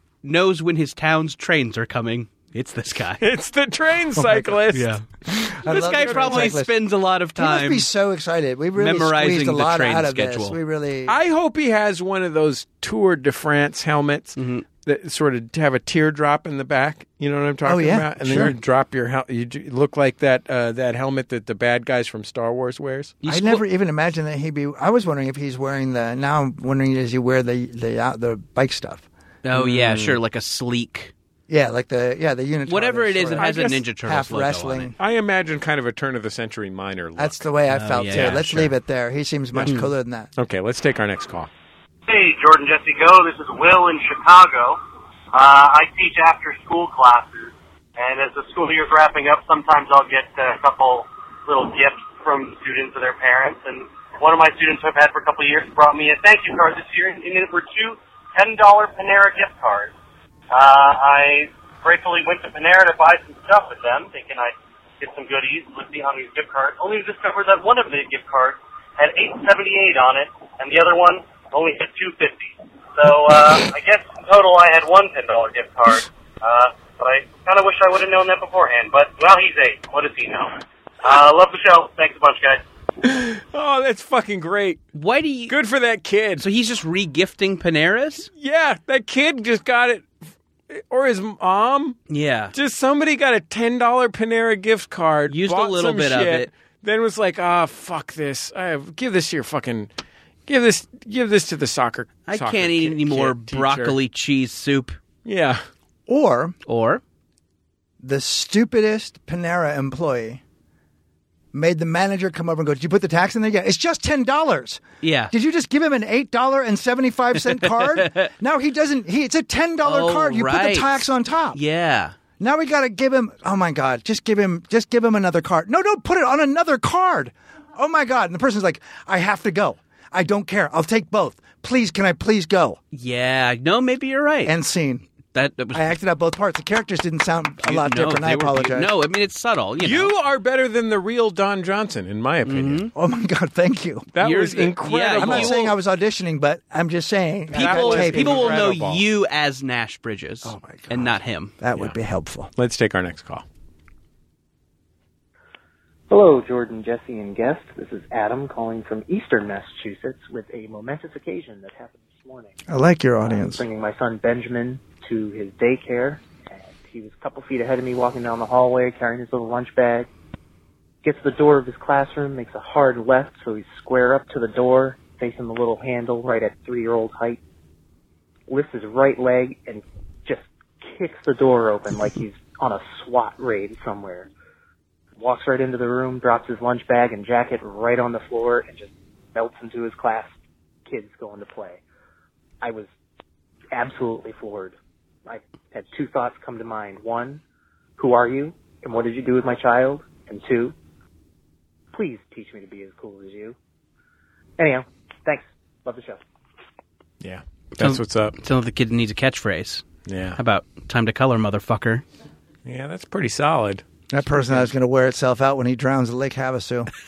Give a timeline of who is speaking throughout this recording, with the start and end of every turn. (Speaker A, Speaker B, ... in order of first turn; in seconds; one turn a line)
Speaker A: 0.2-3.2
Speaker B: 3.2-4.9
Speaker C: 4.2-4.5
Speaker A: 4.7-5.0
Speaker C: 5.3-6.8
Speaker A: 5.6-7.9
Speaker B: 5.7-6.5
Speaker C: 7.4-11.2
Speaker A: 8.8-10.6
Speaker B: 11.1-23.1
Speaker A: 14.4-14.7
Speaker C: 17.6-18.6
Speaker A: 23.2-23.6
Speaker C: 23.3-29.1
Speaker A: 29.4-31.1
Speaker B: 29.5-30.2
Speaker C: 31.5-35.0
Speaker A: 32.7-34.9
Speaker B: 33.4-33.8
Speaker B: 35.0-37.5
Speaker C: 37.2-40.3
Speaker A: 37.7-38.7
Speaker B: 38.1-38.4
Speaker B: 40.4-41.5
Speaker D: 42.1-44.8
Speaker D: 45.3-59.9
Speaker D: 60.5-82.6
Speaker B: 83.0-84.8
Speaker A: 85.0-85.5
Speaker B: 85.5-86.4
Speaker A: 86.4-88.3
Speaker B: 88.4-90.1
Speaker B: 90.7-92.0
Speaker A: 92.1-92.5
Speaker B: 92.5-99.9
Speaker A: 95.3-96.5
Speaker B: 100.5-104.0
Speaker A: 102.3-105.0
Speaker B: 105.2-105.6
Speaker C: 106.1-106.6
Speaker A: 106.7-107.0
Speaker C: 108.0-110.4
Speaker C: 111.5-121.6
Speaker A: 115.0-115.3
Speaker A: 117.6-118.3
Speaker A: 119.8-122.2
Speaker C: 122.4-132.8
Speaker A: 132.9-134.5
Speaker C: 134.4-135.1
Speaker A: 135.3-135.9
Speaker C: 135.7-138.9
Speaker A: 137.6-140.1
Speaker B: 139.8-142.9
Speaker A: 142.5-142.9
Speaker C: 142.9-144.1
Speaker B: 144.1-145.6
Speaker A: 144.2-145.7
Speaker C: 145.2-148.7
Speaker B: 147.5-149.1
Speaker A: 147.5-151.5
Speaker C: 150.4-152.5
Speaker B: 152.6-153.4
Speaker E: 156.1-162.6
Speaker C: 162.7-163.6
Speaker E: 163.2-170.1
Speaker E: 171.0-177.4
Speaker E: 178.5-184.3
Speaker E: 185.2-190.3
Speaker E: 190.9-191.8
Speaker E: 192.6-192.9
Speaker E: 193.7-194.8
Speaker E: 195.3-197.4
Speaker E: 198.0-200.7
Speaker E: 201.9-203.6
Speaker E: 204.6-206.2
Speaker B: 207.2-208.3
Speaker A: 207.8-209.8
Speaker B: 210.1-210.4
Speaker A: 210.4-212.0
Speaker B: 212.7-213.8
Speaker C: 214.1-216.9